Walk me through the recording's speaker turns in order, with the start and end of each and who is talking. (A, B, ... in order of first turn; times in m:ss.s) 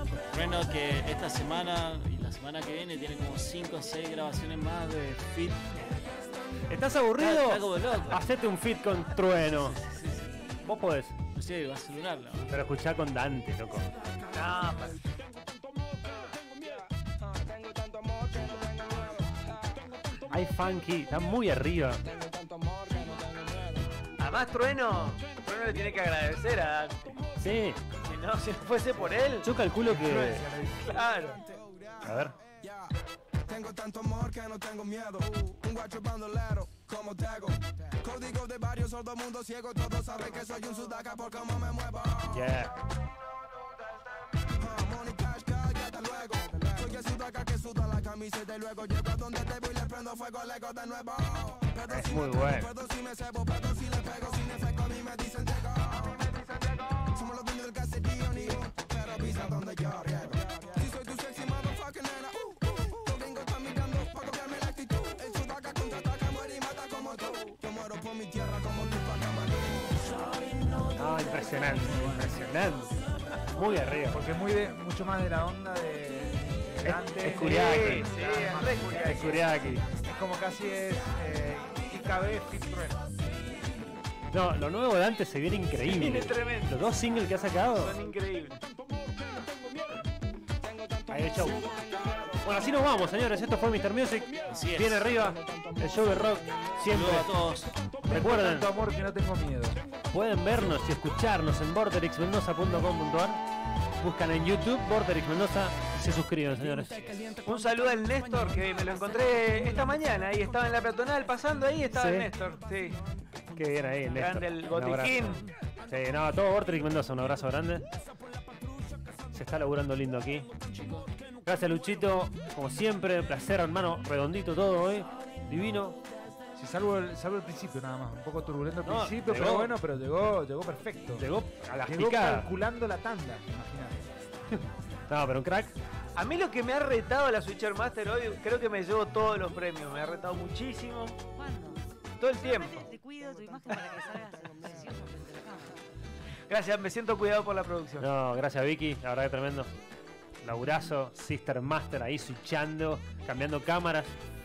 0:00.3-0:06.0 A
0:06.7-0:09.8 B
0:07.2-0:08.2 A
0:09.5-0:10.4 A
0:10.6-0:11.2 B
0:11.3-0:12.5 A
0:12.5-0:13.9 B
0:14.3-0:15.0 C
0:16.2-0:19.8 D
0:20.3-0:22.0 B
0:22.0-0:23.8 D
0:24.2-0:27.2 C
0:27.4-0:27.8 B
0:28.0-0:29.5 C
0:29.4-0:30.5 B
0:29.8-0:31.0 E
0:30.8-0:31.4 C
0:30.9-0:32.9 D
0:32.0-0:32.3 B
0:33.5-0:42.4 D
0:42.3-0:42.8 B
0:44.6-1:10.3 D
0:51.9-0:52.7 B
1:11.0-1:13.0 B
1:11.8-1:12.5 E
1:13.5-1:14.2 B
1:14.1-1:19.4 E
1:16.8-1:18.1 B
1:17.3-1:19.4 C
1:19.0-1:19.8 B
1:19.9-1:23.2 E
1:24.3-1:28.0 B
1:25.8-1:26.8 C
1:27.7-1:28.6 C
1:31.1-1:31.7 B
1:32.4-1:37.4 B
1:34.5-1:35.1 A
1:36.8-1:37.8 A
1:38.0-1:39.8 E
1:38.1-1:38.7 B
1:40.1-1:43.4 B
1:44.0-1:47.1 B
1:47.4-1:53.0 C
1:51.9-1:52.3 B
1:53.5-1:57.9 B
1:54.1-1:55.5 C
1:59.3-2:00.5 B
2:01.4-2:06.0 B
2:06.6-2:14.2 E
2:08.8-2:09.8 B
2:11.2-2:12.5 B
2:14.5-2:15.7 B
2:16.2-2:21.2 C
2:21.3-2:25.8 F
2:22.2-2:22.9 C
2:26.5-2:28.1 C
2:28.0-2:29.7 B
2:30.4-2:34.2 B